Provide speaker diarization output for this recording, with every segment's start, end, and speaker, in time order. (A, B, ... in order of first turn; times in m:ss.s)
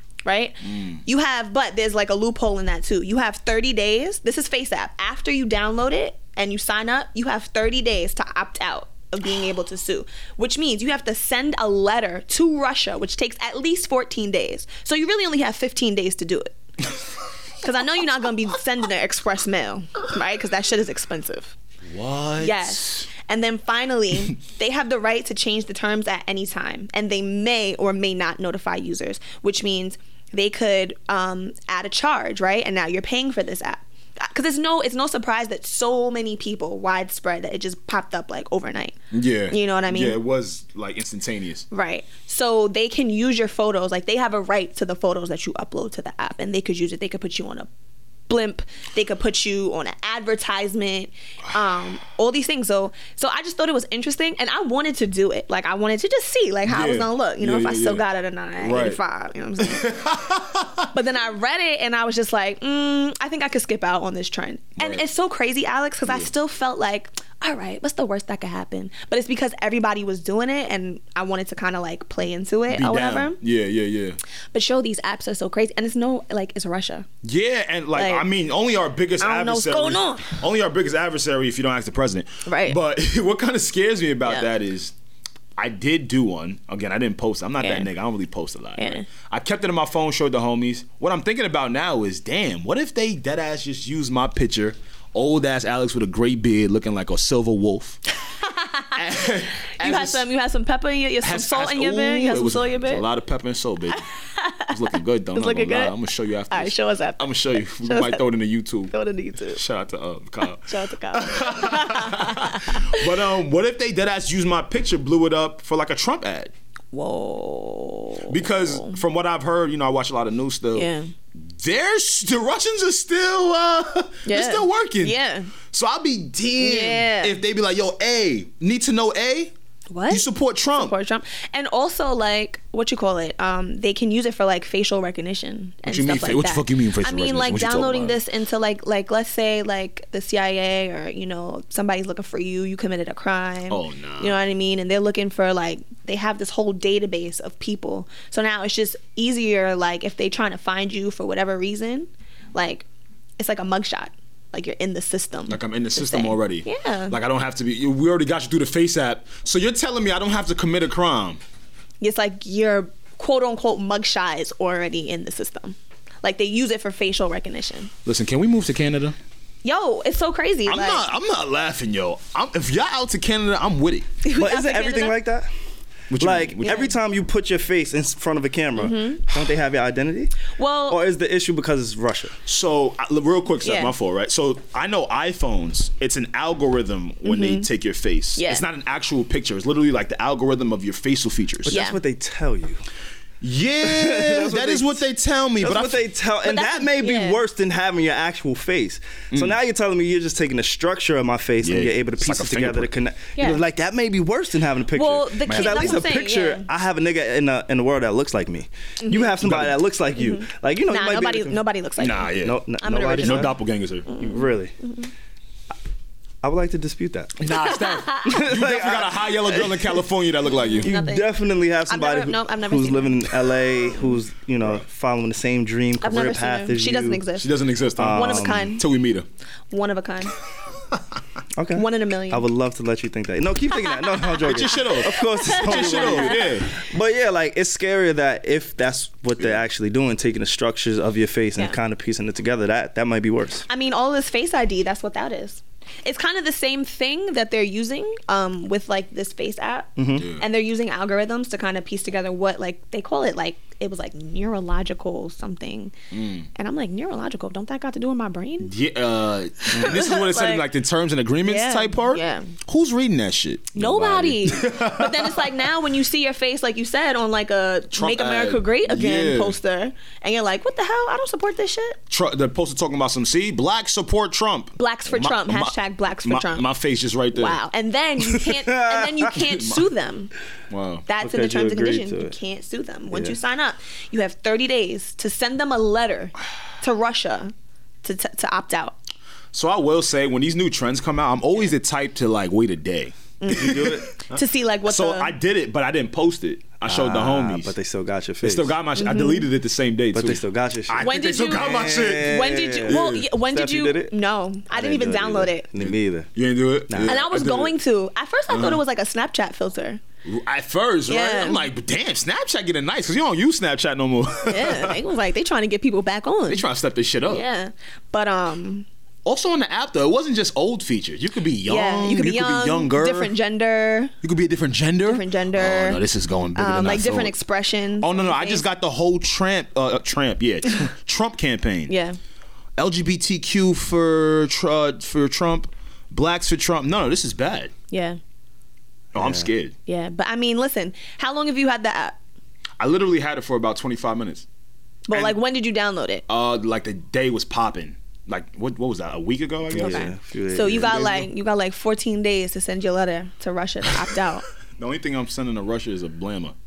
0:00.2-0:16.5 A
0:00.6-0:01.0 B
0:17.6-0:21.5 A
0:21.8-0:23.1 B
0:22.4-0:39.0 A
0:39.1-0:41.6 B
0:39.5-0:40.2 A
0:41.7-0:47.7 A
0:48.3-0:59.9 A
0:56.7-0:58.0 B
0:58.6-0:59.0 B
0:59.6-1:00.9 B
1:00.9-1:13.4 A
1:04.8-1:05.0 B
1:12.7-1:14.2 B
1:14.5-1:17.1 A
1:17.2-1:24.9 B
1:17.9-1:18.2 A
1:19.2-1:20.4 A
1:22.5-1:22.8 A
1:25.6-1:38.0 B
1:27.6-1:27.9 A
1:28.8-1:29.0 A
1:38.4-1:39.0 A
1:38.9-1:40.2 B
1:39.8-1:43.0 A
1:41.2-1:44.1 B
1:44.0-1:45.9 A
1:44.7-1:48.9 B
1:46.5-1:48.3 A
1:48.9-1:49.6 A
1:49.5-1:56.5 B
1:50.5-1:53.1 A
1:56.9-1:59.0 A
1:58.3-2:05.2 B
2:00.7-2:01.1 A
2:04.2-2:05.5 A
2:05.7-2:09.5 B
2:06.6-2:07.4 A
2:09.9-2:32.8 A
2:10.1-2:10.9 B
2:15.9-2:18.2 B
2:23.7-2:24.4 B
2:33.4-2:37.2 A
2:35.5-2:41.4 B
2:42.0-2:47.9 A
2:48.0-2:49.2 B
2:49.6-2:51.0 A
2:50.7-2:54.1 B
2:54.2-2:55.2 A
2:54.3-2:55.5 C
2:56.1-2:56.9 B
2:56.2-3:00.3 C
2:56.6-2:56.9 A
2:58.8-2:59.2 A
3:00.6-3:01.0 A
3:00.9-3:02.3 C
3:02.4-3:11.8 B
3:03.6-3:03.9 A
3:07.2-3:07.7 A
3:08.4-3:08.6 A
3:11.6-3:12.8 C
3:11.7-3:12.0 A
3:13.4-3:16.0 B
3:13.8-3:15.0 C
3:15.6-3:31.6 C
3:16.4-3:17.4 A
3:21.6-3:22.9 B
3:23.4-3:23.6 A
3:24.9-3:26.6 A
3:25.5-3:26.0 B
3:29.0-3:29.4 A
3:29.4-3:29.8 B
3:30.2-3:35.1 A
3:32.0-3:32.6 B
3:32.4-3:33.5 C
3:33.2-3:34.1 B
3:34.2-3:34.7 C
3:36.4-3:37.4 C
3:37.4-3:40.9 B
3:37.5-3:38.4 A
3:38.2-3:40.0 C
3:40.5-3:41.3 A
3:40.8-3:47.2 C
3:41.9-3:43.9 A
3:46.0-3:47.5 A
3:47.4-3:49.2 B
3:48.0-3:48.8 C
3:48.0-3:48.8 A
3:49.7-3:50.3 A
3:51.6-4:03.6 C
3:51.8-3:52.4 A
3:53.9-3:56.5 A
3:54.4-3:56.7 B
4:03.7-4:15.9 A
4:10.0-4:10.3 C
4:10.2-4:10.4 B
4:16.1-4:16.5 B
4:16.5-4:18.7 A
4:18.6-4:25.5 B
4:19.7-4:20.6 A
4:21.4-4:22.5 A
4:23.7-4:32.0 A
4:27.9-4:29.6 B
4:32.1-4:37.6 B
4:34.8-4:36.6 A
4:37.3-4:40.3 A
4:38.4-4:39.3 C
4:39.4-4:39.9 B
4:40.7-4:41.0 B
4:41.1-4:47.5 A
4:41.2-4:42.3 C
4:43.1-4:43.4 C
4:48.0-4:49.0 A
4:49.5-4:57.7 B
4:53.4-4:55.3 A
4:53.5-4:54.1 C
4:56.8-4:58.8 C
4:58.4-5:03.1 B
4:59.0-4:59.5 A
5:00.1-5:04.1 C
5:01.0-5:05.7 A
5:04.7-5:06.3 C
5:05.8-5:07.7 B
5:06.9-5:07.1 C
5:07.0-5:10.0 A
5:08.5-5:08.8 B
5:10.2-5:15.0 B
5:11.1-5:11.7 A
5:14.4-5:16.6 A
5:16.5-5:17.4 B
5:17.3-5:18.8 A
5:19.2-5:23.3 B
5:21.6-5:24.1 A
5:24.2-5:27.3 B
5:25.0-5:26.0 A
5:26.5-5:28.6 A
5:28.0-5:31.9 B
5:31.9-5:32.2 A
5:32.8-5:37.7 B
5:37.9-5:38.2 A
5:39.1-5:39.7 B
5:39.2-5:39.4 C
5:39.8-5:42.2 A
5:42.8-5:44.4 B
5:45.1-5:46.2 A
5:45.1-5:45.4 B
5:46.3-5:50.1 B
5:49.7-5:51.2 C
5:49.8-5:54.5 A
5:50.8-5:51.3 B
5:54.8-5:56.5 B